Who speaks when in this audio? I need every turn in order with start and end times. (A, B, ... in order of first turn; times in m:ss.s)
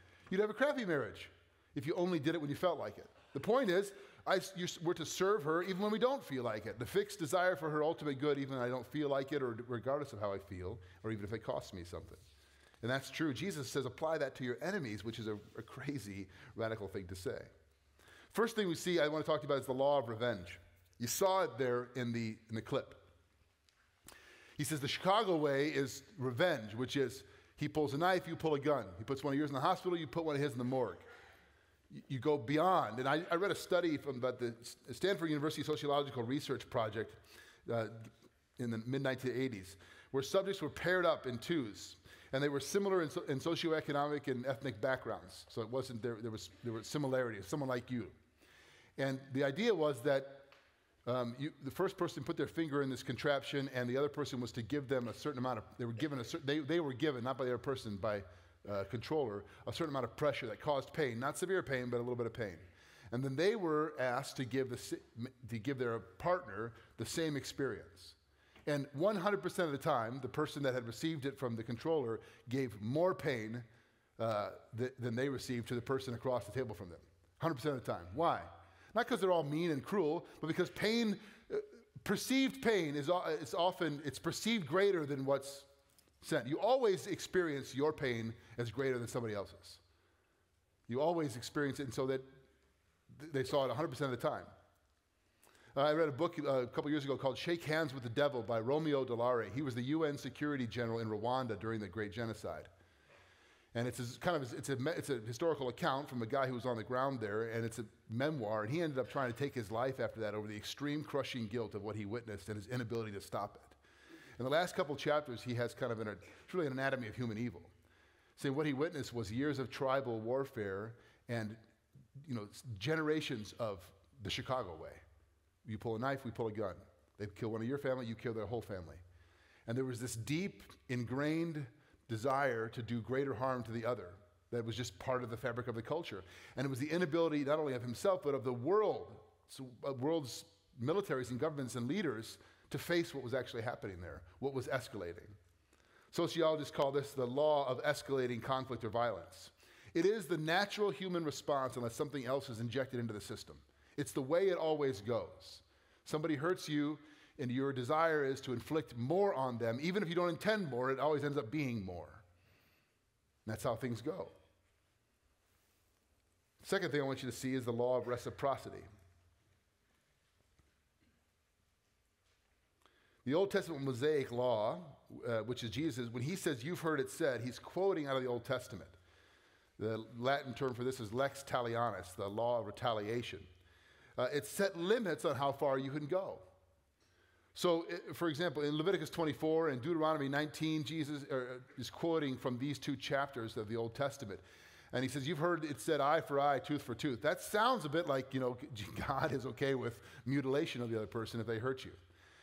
0:00.3-0:12.2 A
0:12.8-0:17.5 A
0:18.3-0:23.1 A
0:24.6-0:31.0 A
0:31.9-0:48.2 A
0:49.0-0:50.5 A
0:51.0-1:13.7 A
1:14.2-1:25.7 A
1:26.2-1:29.8 A
1:30.9-1:32.3 A
1:33.1-1:34.5 A
1:35.8-1:42.7 A
1:43.7-1:53.8 A
1:54.4-1:57.7 A
1:58.4-2:01.6 A
2:02.2-2:05.0 A
2:05.6-2:09.0 A
2:09.7-2:25.4 A
2:26.1-2:42.2 A
2:43.5-2:44.4 A
2:46.6-2:48.9 A
2:53.2-2:59.0 A
2:59.8-3:03.5 A
3:04.2-3:06.5 A
3:07.6-3:22.0 A